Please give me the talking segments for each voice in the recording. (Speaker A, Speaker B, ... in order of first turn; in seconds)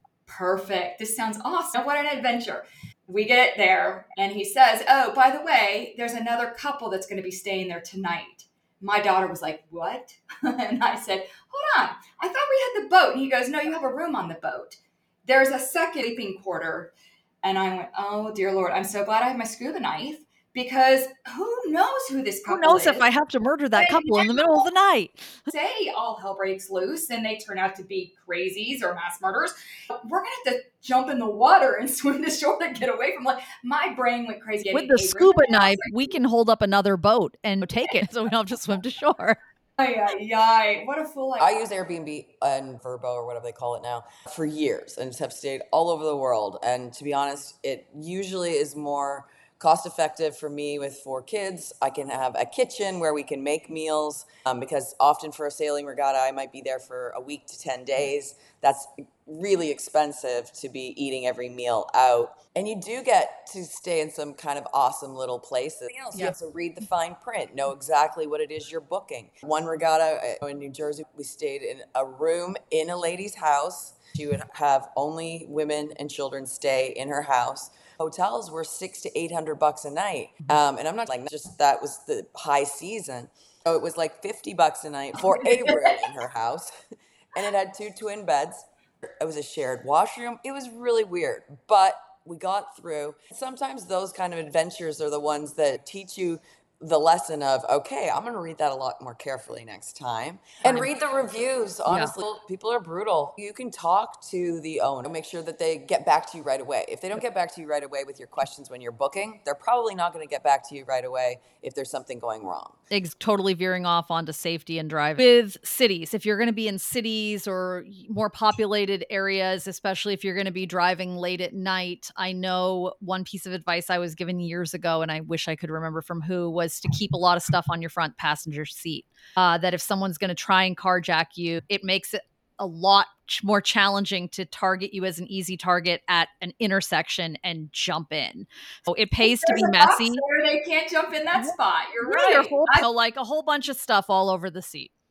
Speaker A: 0.3-16.9, 17.4-23.1, 23.7-24.7, 25.5-35.9, 39.8-41.6, 139.2-142.8
Speaker B: 22.4-25.5, 34.7-39.4, 101.9-102.1, 112.9-140.2, 141.3-144.9
Speaker C: 41.4-86.7, 87.3-88.7, 89.2-112.8